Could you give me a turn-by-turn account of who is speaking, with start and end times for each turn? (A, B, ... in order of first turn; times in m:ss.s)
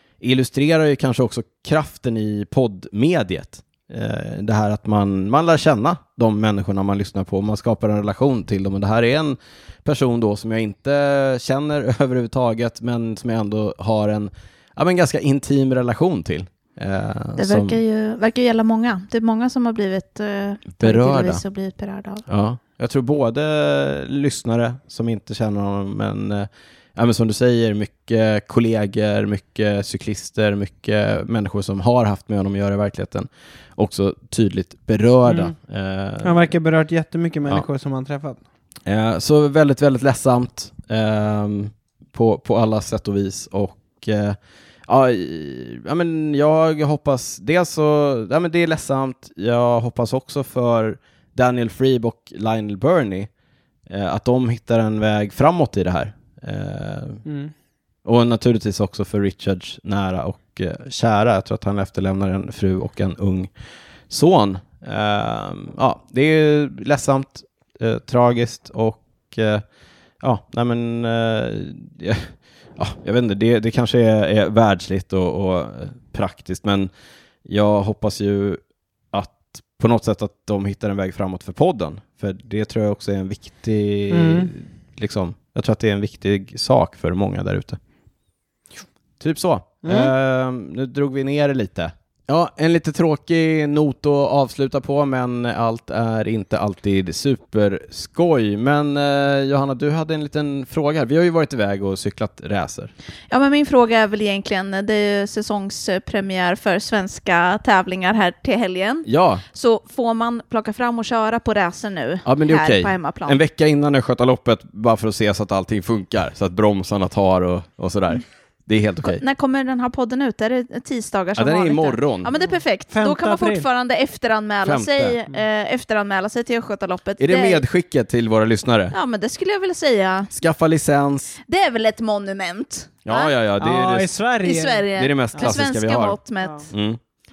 0:00.2-0:17.8 A
0:17.4-0:22.2 B
0:20.7-0:21.4 A
0:22.3-0:36.6 A
0:35.3-0:35.5 C
0:36.2-0:38.4 C
0:38.9-0:53.3 A
0:53.9-0:57.2 A
0:57.2-0:57.5 C
0:58.0-1:03.5 A
1:04.1-1:09.6 A
1:10.2-1:16.9 A
1:17.5-1:18.6 A
1:19.1-1:27.8 A
1:24.1-1:24.5 C
1:29.2-1:42.9 A
1:29.8-1:30.1 C
1:43.3-1:53.4 B
1:49.1-1:49.4 A
1:52.2-1:59.2 A
1:59.0-2:07.6 B
2:01.4-2:02.4 A
2:02.9-2:03.7 C
2:04.6-2:05.2 A
2:07.2-2:08.9 A
2:08.9-2:10.3 B
2:10.3-2:11.4 A
2:11.5-2:13.4 B
2:13.0-2:14.1 A
2:13.6-2:15.6 C
2:14.4-2:16.7 B
2:15.0-2:16.2 A
2:16.7-2:17.0 A